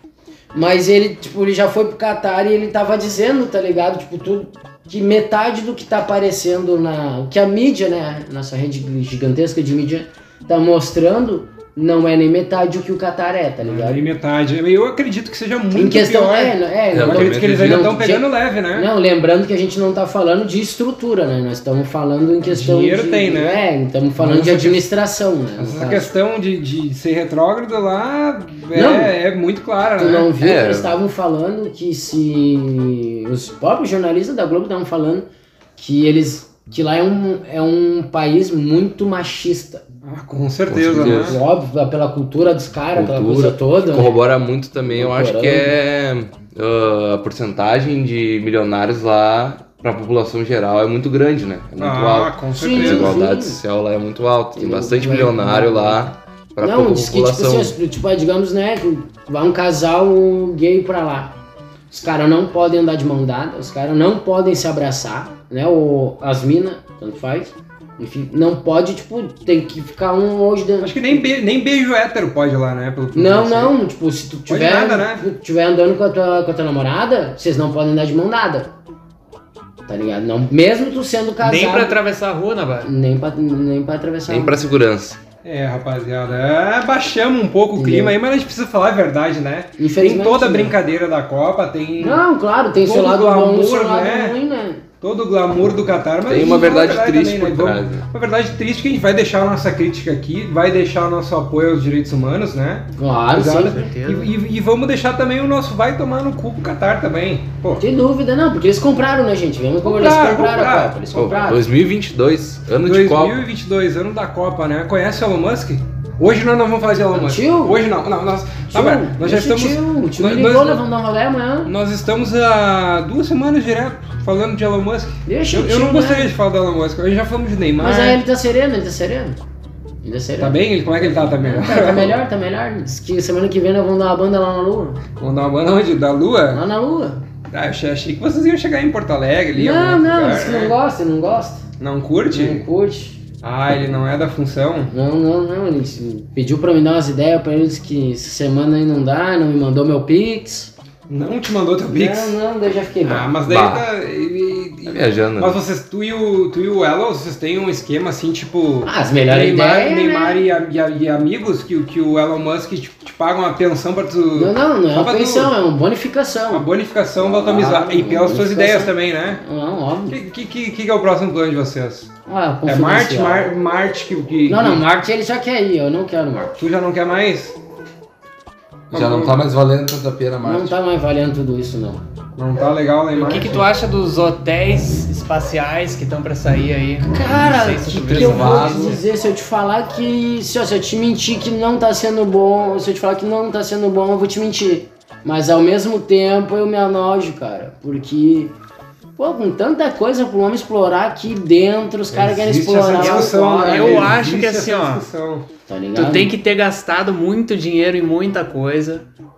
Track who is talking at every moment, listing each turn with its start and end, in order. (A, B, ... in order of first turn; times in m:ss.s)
0:00.5-0:14.0 A
0:13.6-0:18.9 B
0:15.7-0:26.1 A
0:16.9-0:17.9 C
0:22.4-0:23.6 B
0:24.2-0:24.8 B
0:25.6-0:30.3 B
0:28.7-0:29.1 A
0:30.0-0:39.8 A
0:30.4-0:31.0 C
0:40.0-0:41.4 B
0:40.7-0:41.4 C
0:41.0-0:44.2 A
0:42.9-0:57.8 C
0:44.9-0:45.7 A
0:51.8-0:53.2 B
0:52.6-0:53.6 A
0:54.6-0:56.0 A
0:56.6-1:01.4 A
1:01.9-1:11.3 A
1:10.8-1:13.8 B
1:13.1-1:18.7 A
1:14.5-1:15.2 B
1:19.9-1:22.0 A
1:21.4-1:22.9 D
1:22.8-1:24.6 A
1:24.3-1:25.2 C
1:25.4-1:32.2 B
1:27.8-1:28.2 A
1:29.8-1:30.8 A
1:32.0-1:34.8 A
1:32.8-1:34.4 B
1:35.0-1:47.8 B
1:36.3-1:38.0 C
1:43.0-1:43.9 A
1:43.7-1:44.3 D
1:47.8-1:51.6 A
1:49.8-1:51.0 B
1:51.1-1:53.4 C
1:52.8-2:00.8 B
1:57.1-1:57.8 A
1:58.7-2:01.7 A
2:01.6-2:08.2 B
2:05.3-2:06.3 A
2:07.8-2:09.4 A
2:10.0-2:15.0 A
2:10.4-2:12.2 B
2:15.2-2:16.6 B
2:16.5-2:17.2 A
2:17.5-2:20.8 B
2:19.6-2:21.6 A
2:21.8-2:22.6 B
2:22.3-2:23.2 A
2:23.4-2:24.9 B
2:24.9-2:30.7 A
2:31.1-2:32.4 B
2:31.9-2:33.4 A
2:33.0-2:45.5 B
2:33.4-2:33.9 C
2:34.9-2:35.6 C
2:38.8-2:40.4 A
2:44.4-2:46.7 A
2:46.5-2:49.4 B
2:47.2-2:50.2 A
2:50.1-2:52.1 B
2:52.3-2:53.5 A
2:52.7-2:54.8 B
2:54.5-2:56.6 A
2:56.6-2:57.6 B
2:58.9-2:59.4 B
2:58.9-3:00.7 C
3:00.4-3:02.0 A
3:02.4-3:03.6 B
3:03.2-3:09.0 D
3:07.1-3:18.5 A
3:07.9-3:09.0 C
3:19.2-3:24.2 A
3:22.1-3:25.5 B
3:23.0-3:25.1 D
3:25.7-3:26.3 A
3:26.0-3:29.1 D